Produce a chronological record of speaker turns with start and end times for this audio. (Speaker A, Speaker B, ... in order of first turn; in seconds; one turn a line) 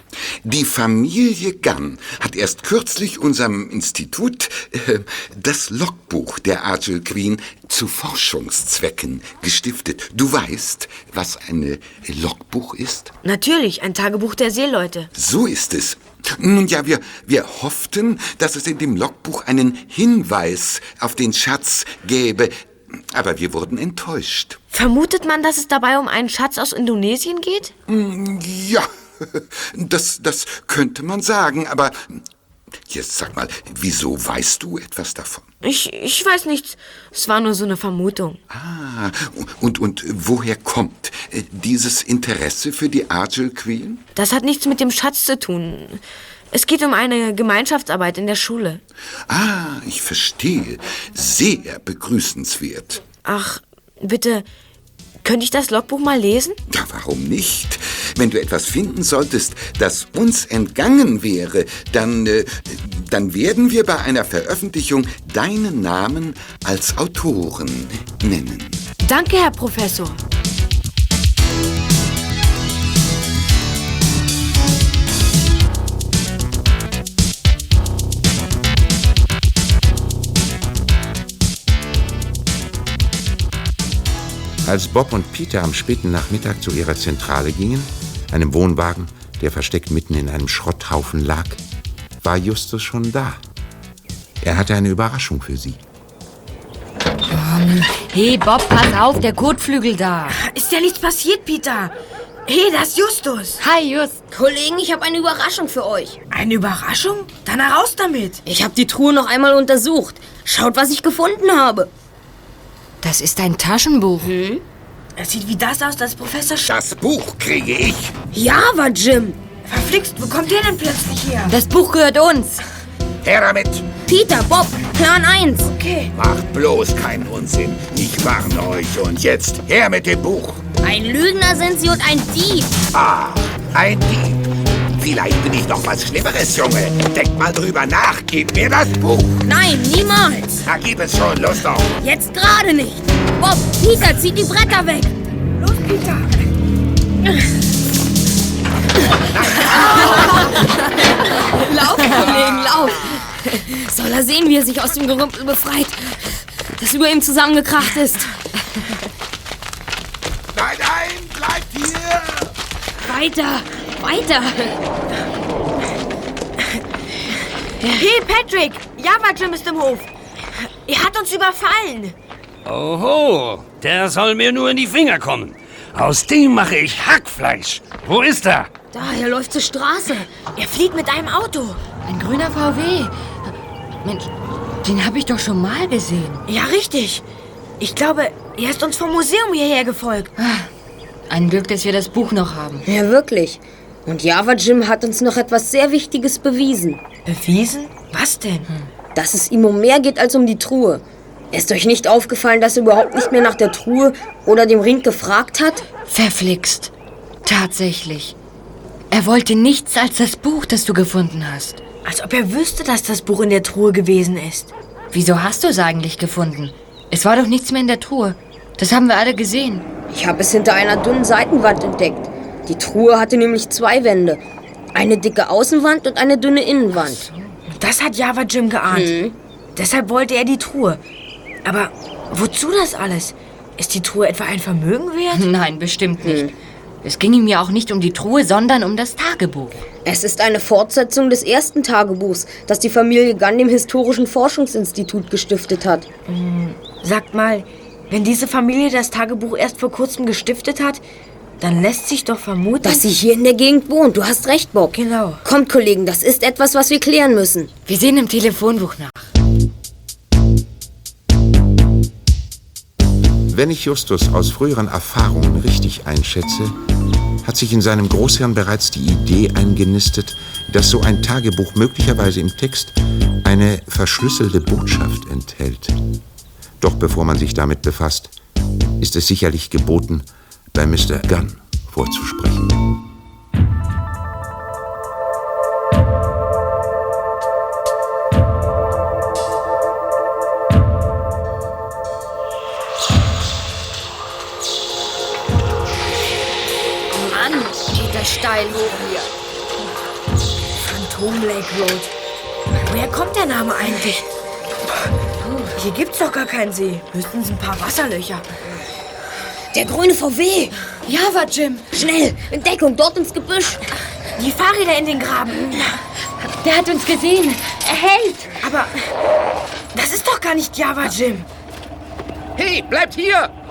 Speaker A: 0.4-13.1
Speaker B: 13.2-15.1
Speaker A: 15.1-24.6
Speaker B: 24.7-27.7
Speaker A: 27.9-32.2
Speaker A: 32.9-35.5
Speaker B: 35.6-38.4
Speaker A: 38.5-44.0
Speaker B: 44.2-48.8
Speaker A: 49.3-53.0
Speaker B: 53.2-54.5
Speaker B: 55.2-56.6
Speaker A: 56.7-68.8
Speaker B: 69.0-70.2
Speaker C: 84.6-91.6
Speaker C: 92.2-93.4
Speaker C: 94.4-95.8
Speaker D: 97.3-100.4
Speaker B: 100.3-101.9
Speaker B: 102.5-103.6
Speaker D: 103.6-104.2
Speaker E: 104.3-106.2
Speaker B: 106.3-108.4
Speaker E: 108.5-111.9
Speaker D: 113.0-114.3
Speaker B: 115.2-116.7
Speaker F: 116.7-118.1
Speaker E: 118.3-119.4
Speaker B: 119.7-121.6
Speaker D: 121.5-122.6
Speaker F: 123.2-123.9
Speaker E: 124.1-125.7
Speaker B: 125.6-126.1
Speaker F: 126.1-130.6
Speaker E: 130.8-132.8
Speaker F: 132.9-134.5
Speaker F: 135.0-139.4
Speaker E: 139.4-140.6
Speaker F: 140.7-142.0
Speaker E: 142.0-145.1
Speaker B: 145.6-146.4
Speaker E: 149.8-158.3
Speaker F: 160.5-162.5
Speaker E: 163.0-164.8
Speaker B: 167.8-170.1
Speaker B: 170.6-172.2
Speaker G: 172.7-178.7
Speaker E: 178.9-180.3
Speaker B: 180.6-181.8
Speaker D: 182.1-183.5
Speaker D: 184.0-184.3
Speaker D: 184.8-186.4
Speaker B: 186.5-187.2
Speaker B: 187.8-190.3
Speaker D: 190.4-190.7
Speaker D: 191.3-192.8
Speaker E: 192.8-197.0
Speaker B: 197.3-198.7
Speaker E: 199.2-205.9
Speaker D: 206.0-206.9
Speaker D: 207.4-208.3
Speaker D: 209.1-211.8
Speaker B: 212.1-214.7
Speaker D: 215.1-219.9
Speaker E: 220.1-224.4
Speaker E: 224.9-227.2
Speaker B: 227.7-229.2
Speaker E: 228.9-229.4
Speaker B: 229.8-231.0
Speaker B: 231.7-235.5
Speaker D: 235.3-236.5
Speaker E: 236.2-236.5
Speaker D: 237.0-239.8
Speaker E: 240.1-246.1
Speaker B: 246.3-251.0
Speaker B: 251.6-253.0
Speaker E: 252.8-257.7
Speaker B: 254.9-255.4
Speaker D: 257.9-259.3
Speaker C: 263.5-266.8
Speaker C: 267.4-276.0
Speaker C: 276.8-278.4
Speaker C: 279.0-282.9
Speaker D: 297.1-299.3
Speaker B: 300.8-302.1
Speaker B: 302.9-304.2
Speaker B: 305.8-308.4
Speaker E: 309.7-310.8
Speaker D: 311.1-311.9
Speaker E: 311.9-313.9
Speaker B: 314.4-316.0
Speaker D: 316.6-318.6
Speaker B: 318.6-319.0
Speaker B: 319.9-321.5
Speaker F: 322.6-323.5